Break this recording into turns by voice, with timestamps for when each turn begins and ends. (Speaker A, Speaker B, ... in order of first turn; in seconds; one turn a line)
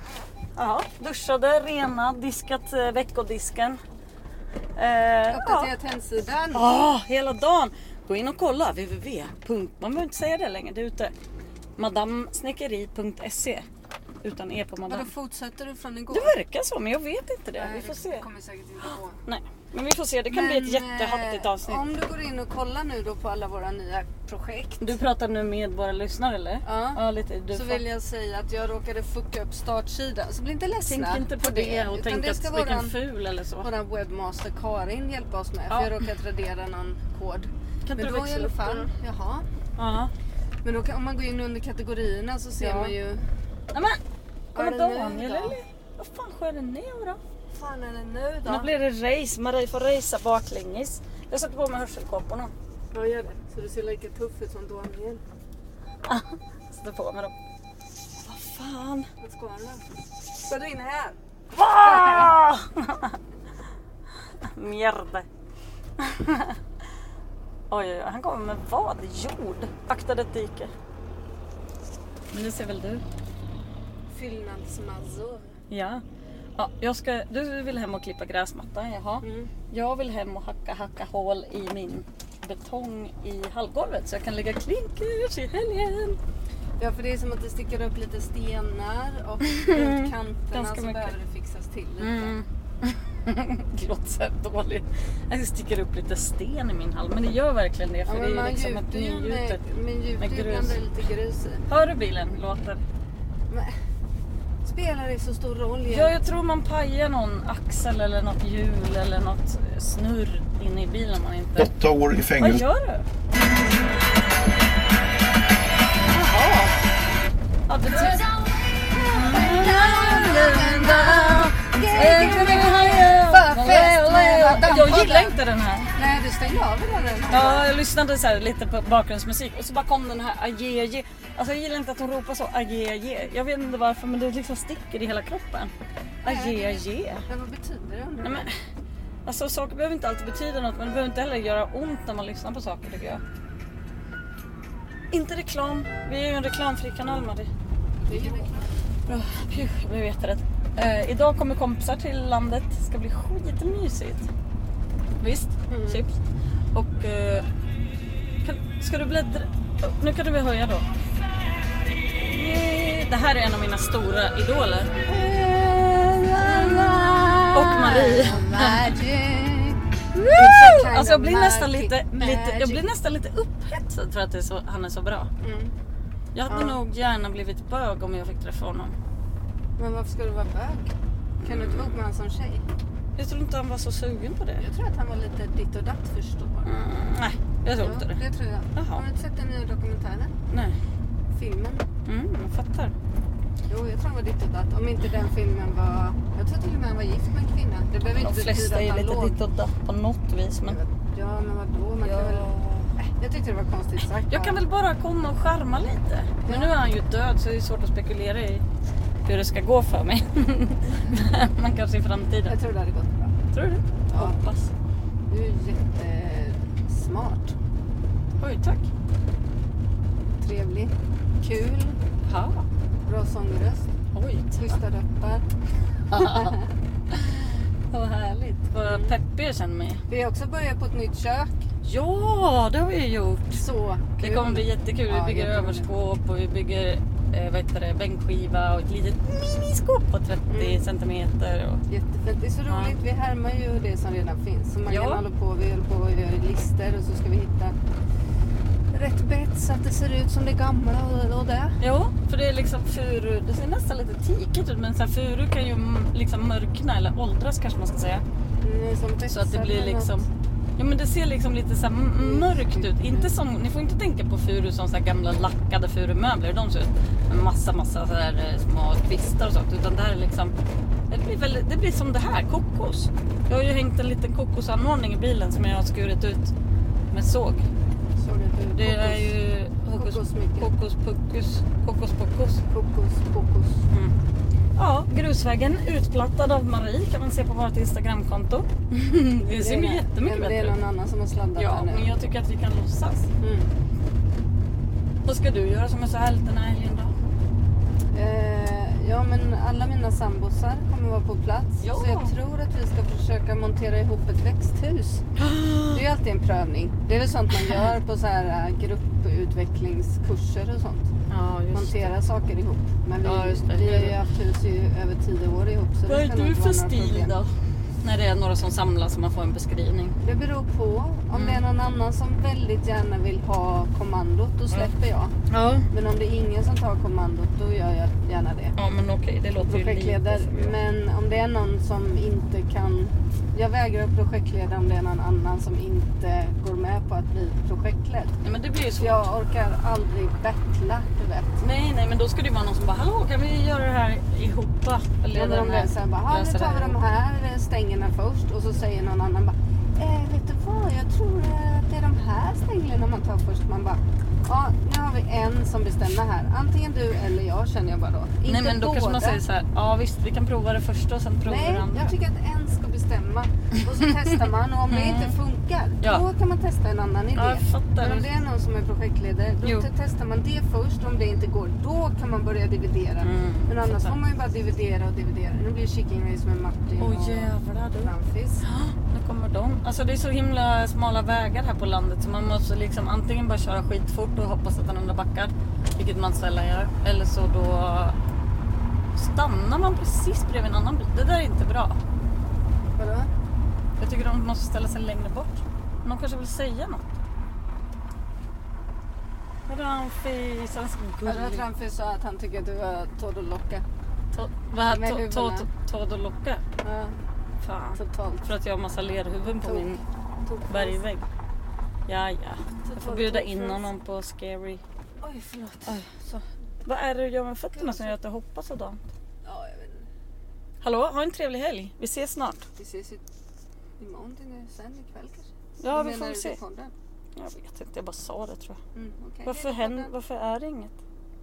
Speaker A: 0.6-3.8
Speaker A: 4.8-5.7
Speaker B: 5.3-6.7
Speaker A: 6.5-11.1
Speaker A: 11.8-13.7
Speaker A: 14.2-15.1
Speaker B: 14.8-16.4
Speaker A: 16.1-18.2
Speaker B: 17.5-19.2
Speaker A: 18.9-21.8
Speaker B: 20.3-24.9
Speaker A: 24.8-27.8
Speaker B: 26.6-33.0
Speaker A: 30.8-33.7
Speaker B: 33.6-39.5
Speaker A: 35.7-36.0
Speaker A: 37.8-38.9
Speaker A: 39.8-40.1
Speaker B: 40.6-43.2
Speaker A: 42.6-42.9
Speaker A: 43.7-44.0
Speaker B: 44.5-45.6
Speaker A: 44.5-47.2
Speaker B: 47.5-48.7
Speaker A: 48.5-52.5
Speaker B: 52.9-55.2
Speaker A: 56.0-57.3
Speaker A: 58.2-59.1
Speaker B: 59.2-59.9
Speaker B: 60.4-61.2
Speaker A: 61.5-63.2
Speaker B: 61.7-62.4
Speaker A: 64.4-65.2
Speaker A: 66.0-66.6
Speaker A: 67.7-70.7
Speaker A: 72.3-73.0
Speaker B: 74.1-75.5
Speaker A: 75.7-76.0
Speaker A: 76.5-86.2
Speaker B: 79.2-79.5
Speaker B: 86.8-92.3
Speaker A: 89.5-91.1
Speaker A: 92.0-99.6
Speaker B: 98.0-101.6
Speaker A: 100.2-100.8
Speaker A: 101.7-102.8
Speaker B: 104.6-106.2
Speaker A: 105.9-113.0
Speaker A: 116.1-116.7
Speaker A: 117.7-118.3
Speaker B: 118.9-125.3
Speaker A: 119.0-125.9
Speaker B: 125.9-127.7
Speaker A: 127.3-135.7
Speaker A: 136.2-137.2
Speaker B: 136.2-138.5
Speaker A: 138.2-138.6
Speaker A: 139.2-143.2
Speaker A: 145.1-147.5
Speaker B: 148.0-148.7
Speaker A: 148.1-148.4
Speaker A: 149.1-154.3
Speaker A: 155.2-156.2
Speaker B: 155.7-156.0
Speaker A: 156.7-157.4
Speaker A: 158.4-160.8
Speaker A: 162.3-165.0
Speaker B: 165.0-172.9
Speaker A: 166.4-166.9
Speaker A: 167.5-168.9
Speaker A: 170.1-175.3
Speaker B: 175.4-175.7
Speaker A: 176.3-178.9
Speaker B: 176.5-176.8
Speaker B: 179.8-182.6
Speaker A: 181.4-182.0
Speaker A: 183.2-184.6
Speaker B: 184.6-186.7
Speaker A: 186.6-188.2
Speaker B: 187.8-190.3
Speaker A: 188.7-189.0
Speaker A: 190.5-190.8
Speaker B: 191.3-191.8
Speaker A: 192.1-192.9
Speaker B: 193.7-199.4
Speaker A: 198.0-200.8
Speaker B: 200.6-204.6
Speaker A: 202.0-202.9
Speaker A: 204.3-208.6
Speaker B: 206.4-206.7
Speaker A: 209.2-212.5
Speaker B: 212.4-213.3
Speaker A: 213.5-214.7
Speaker B: 214.1-214.4
Speaker B: 215.3-217.6
Speaker A: 218.4-218.9
Speaker B: 220.4-222.0
Speaker A: 222.2-222.6
Speaker B: 223.1-223.9
Speaker A: 224.1-224.8
Speaker B: 224.6-225.4
Speaker A: 226.1-226.6
Speaker B: 226.1-226.7
Speaker A: 227.1-230.0
Speaker B: 228.8-229.1
Speaker B: 230.1-231.6
Speaker A: 231.8-233.6
Speaker B: 233.6-235.9
Speaker A: 234.2-241.8
Speaker B: 240.5-240.8
Speaker B: 241.9-247.7
Speaker A: 242.7-242.9
Speaker A: 244.9-245.2
Speaker B: 248.9-251.8
Speaker A: 251.8-258.2
Speaker B: 258.6-260.2
Speaker A: 259.3-270.5
Speaker B: 262.2-263.3
Speaker A: 271.1-276.5
Speaker A: 277.1-277.6
Speaker B: 278.2-279.3
Speaker A: 278.8-282.6
Speaker B: 279.9-280.7
Speaker B: 282.7-283.8
Speaker A: 284.8-290.8
Speaker B: 289.6-292.1
Speaker A: 291.6-293.3
Speaker B: 293.4-293.7
Speaker A: 295.2-297.1
Speaker B: 298.1-305.2
Speaker A: 301.8-302.3
Speaker A: 305.4-306.0
Speaker B: 305.9-311.1
Speaker A: 311.3-312.1
Speaker B: 311.7-317.4
Speaker A: 313.2-314.1
Speaker A: 316.1-317.5
Speaker A: 318.0-320.2
Speaker B: 320.2-325.3
Speaker A: 321.3-321.6
Speaker A: 325.5-325.9
Speaker B: 325.9-328.8
Speaker A: 328.8-330.8
Speaker B: 329.6-338.4
Speaker A: 338.4-339.2
Speaker B: 339.0-341.6
Speaker A: 341.6-347.0
Speaker B: 345.3-359.4
Speaker A: 358.4-362.1
Speaker B: 361.4-378.6
Speaker A: 364.9-365.3
Speaker A: 367.3-368.3
Speaker A: 373.2-374.1
Speaker A: 377.0-388.1
Speaker A: 389.1-392.0
Speaker B: 393.0-393.3
Speaker A: 394.0-397.0
Speaker A: 399.7-401.6
Speaker B: 401.2-403.8
Speaker A: 404.3-406.6
Speaker B: 404.9-405.7
Speaker B: 406.8-407.2
Speaker A: 407.6-410.0
Speaker B: 407.9-408.5
Speaker B: 409.5-411.0
Speaker A: 410.7-411.3
Speaker A: 412.1-414.8
Speaker B: 412.8-413.9
Speaker B: 415.2-416.4
Speaker A: 415.9-416.3
Speaker A: 416.8-419.0
Speaker B: 417.8-418.1
Speaker B: 419.4-420.1
Speaker A: 420.8-422.7
Speaker B: 422.8-423.2
Speaker B: 424.0-426.9
Speaker A: 425.8-426.6
Speaker A: 427.4-428.8
Speaker B: 428.9-430.1
Speaker A: 429.4-430.9